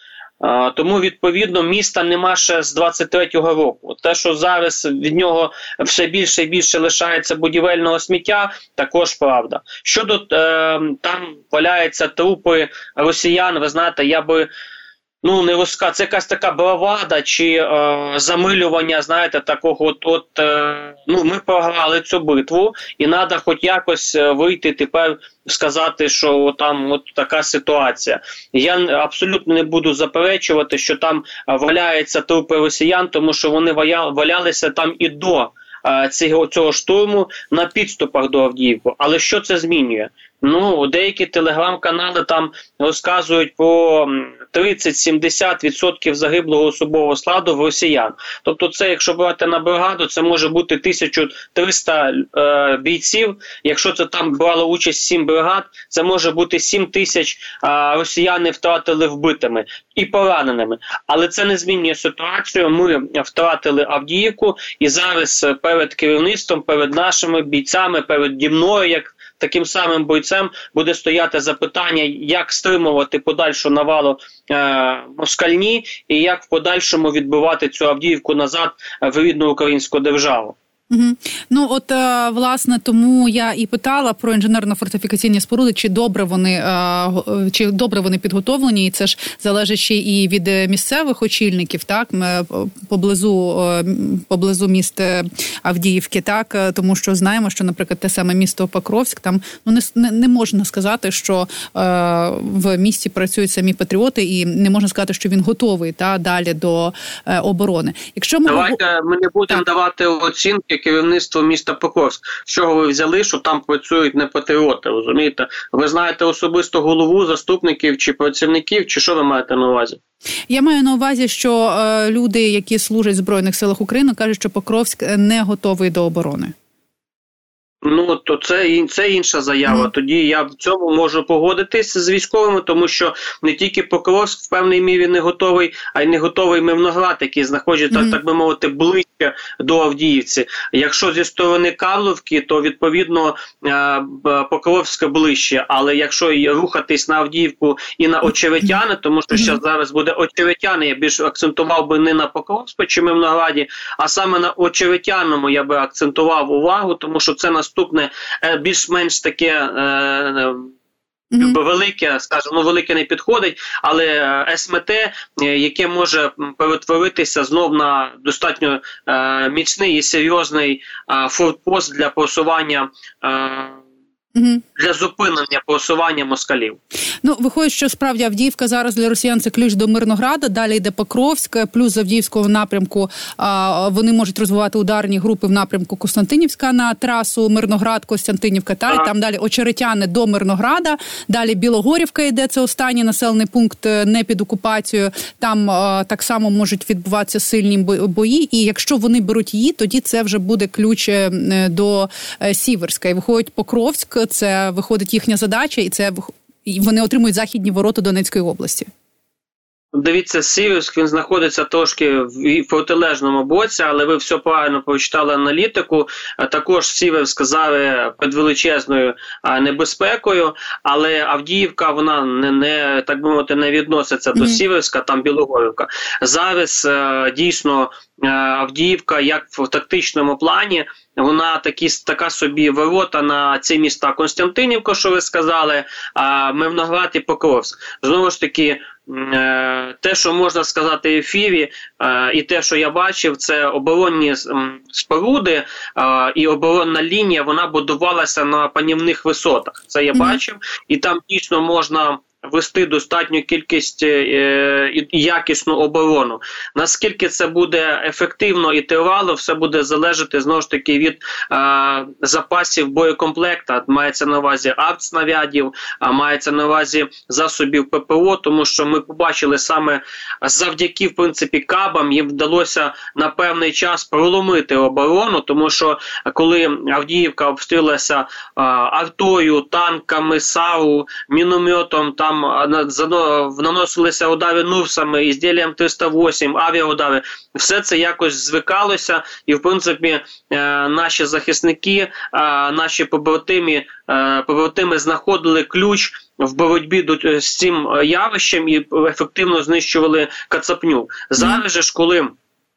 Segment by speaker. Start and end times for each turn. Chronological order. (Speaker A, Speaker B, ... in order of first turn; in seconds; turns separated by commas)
Speaker A: 0.4-14.5, Speaker A: 15.2-80.5, Speaker B: 80.9-108.8, Speaker A: 108.5-120.0, Speaker B: 120.5-126.5, Speaker A: 127.8-160.7, Speaker B: 161.3-161.6, Speaker A: 161.4-173.8, Speaker B: 174.3-174.6, Speaker A: 174.8-176.8, Speaker B: 177.2-208.9, Speaker A: 209.9-302.4, Speaker B: 224.3-224.6, Speaker B: 250.1-250.4